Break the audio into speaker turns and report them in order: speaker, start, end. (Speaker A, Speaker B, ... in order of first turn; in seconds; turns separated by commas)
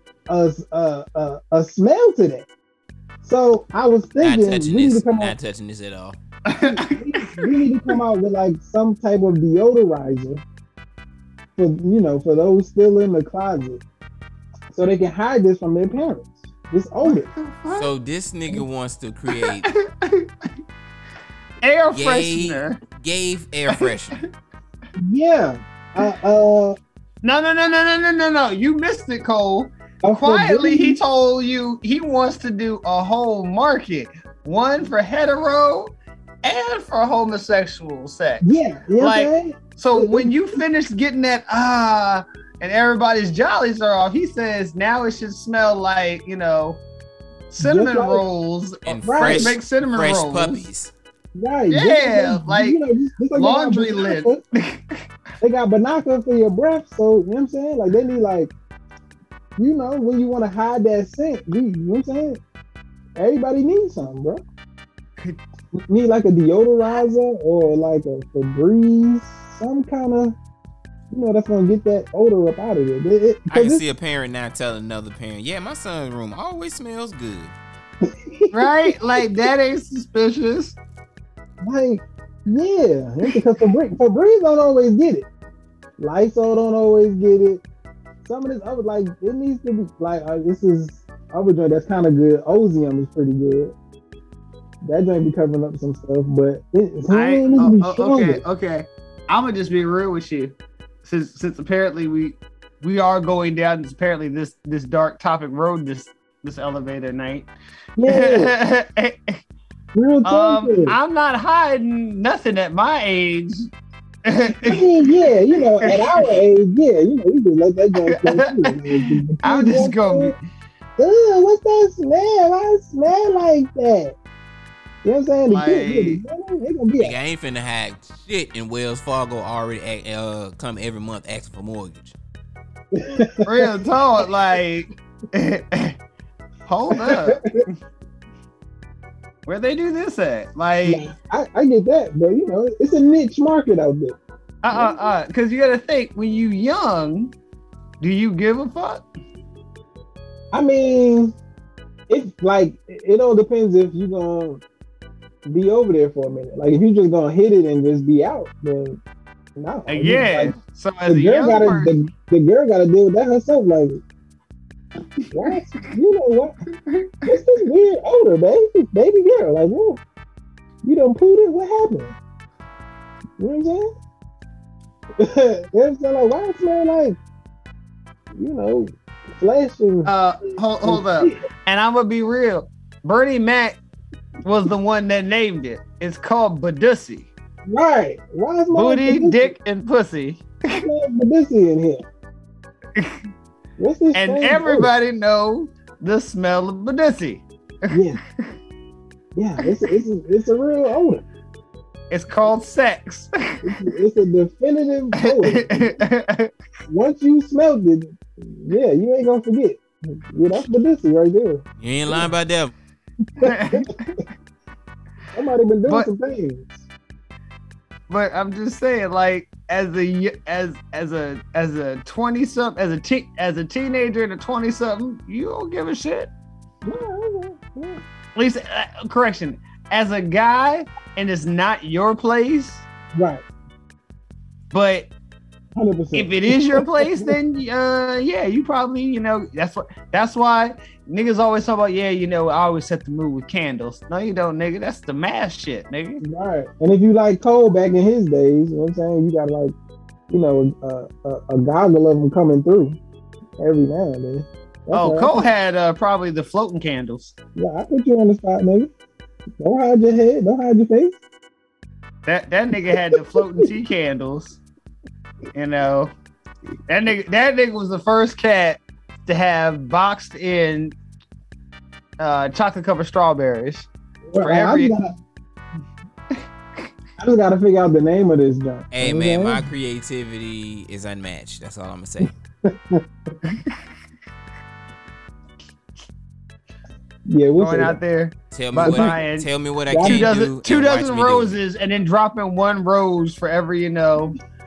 Speaker A: 0.3-2.5, Speaker A: 3.2-5.3, Speaker B: 4.2-6.2, Speaker C: 6.5-7.6, Speaker A: 6.6-10.4, Speaker A: 11.6-13.8, Speaker A: 14.7-17.3, Speaker C: 17.1-17.9, Speaker B: 17.7-19.7, Speaker C: 19.4-20.3, Speaker C: 21.6-22.8, Speaker B: 21.9-24.2, Speaker A: 25.0-26.8, Speaker C: 27.2-46.8, Speaker A: 30.0-31.0, Speaker A: 38.4-40.3, Speaker C: 47.5-50.6, Speaker A: 47.6-48.2, Speaker B: 48.8-50.9, Speaker A: 49.0-49.5, Speaker A: 51.3-54.4, Speaker C: 51.7-52.8, Speaker C: 53.3-55.0, Speaker A: 55.4-58.5, Speaker A: 59.6-62.4, Speaker A: 63.2-64.4, Speaker A: 65.7-70.3, Speaker A: 71.1-73.8, Speaker B: 73.5-77.5, Speaker A: 78.0-78.6, Speaker C: 78.5-80.8, Speaker A: 81.6-85.3, Speaker A: 86.0-87.6, Speaker A: 88.2-93.7, Speaker A: 94.8-98.4, Speaker C: 97.1-100.5, Speaker C: 101.0-107.5, Speaker A: 108.0-108.5, Speaker C: 108.0-109.4, Speaker A: 109.9-111.0, Speaker C: 110.2-113.7, Speaker C: 114.2-116.4, Speaker A: 114.6-120.3, Speaker C: 118.1-120.4, Speaker A: 121.0-124.2, Speaker A: 125.0-127.2, Speaker C: 125.5-126.2, Speaker B: 127.0-132.1, Speaker A: 132.9-133.4, Speaker C: 133.4-136.0, Speaker C: 136.7-137.6, Speaker A: 136.9-137.6, Speaker C: 139.4-141.1, Speaker A: 140.8-144.2, Speaker C: 144.6-147.3, Speaker A: 144.7-145.1, Speaker C: 148.0-149.0, Speaker A: 150.5-151.3, Speaker A: 152.1-154.6, Speaker A: 155.5-159.0, Speaker A: 159.6-160.6, Speaker C: 159.9-161.9, Speaker A: 161.1-164.0, Speaker C: 165.2-165.5, Speaker A: 165.3-166.5, Speaker C: 166.9-167.4, Speaker A: 167.2-170.0, Speaker A: 170.8-172.2, Speaker A: 173.4-173.9, Speaker A: 175.2-177.2, Speaker A: 178.3-180.1, Speaker C: 180.0-183.8, Speaker A: 180.8-181.4, Speaker C: 184.4-187.3, Speaker A: 187.7-189.5, Speaker C: 188.7-190.8, Speaker A: 190.7-192.0, Speaker C: 192.9-193.2, Speaker A: 193.8-194.9, Speaker C: 194.1-197.4, Speaker A: 197.9-198.2, Speaker A: 199.3-201.2, Speaker C: 202.1-203.6, Speaker A: 203.6-205.9, Speaker C: 205.3-206.5, Speaker A: 206.9-211.6, Speaker B: 211.8-212.7, Speaker A: 213.4-213.8, Speaker C: 213.4-214.1, Speaker A: 215.3-216.8, Speaker C: 218.1-226.3, Speaker A: 226.8-228.0, Speaker C: 228.3-232.8, Speaker A: 233.1-233.4, Speaker C: 234.7-235.1, Speaker A: 235.8-237.3, Speaker C: 236.1-246.2, Speaker A: 246.2-249.7, Speaker A: 250.3-253.0, Speaker A: 253.6-255.5, Speaker C: 254.9-257.3, Speaker A: 257.6-258.9, Speaker A: 259.6-261.1, Speaker C: 262.2-264.6, Speaker C: 265.5-266.1, Speaker C: 266.9-270.9, Speaker C: 272.2-273.9, Speaker A: 274.3-275.1, Speaker C: 274.4-274.9, Speaker A: 277.2-279.7, Speaker B: 278.9-282.3, Speaker A: 282.6-283.0, Speaker A: 287.3-288.0, Speaker C: 287.6-294.4, Speaker B: 288.5-291.6, Speaker A: 288.7-289.1, Speaker A: 289.9-290.3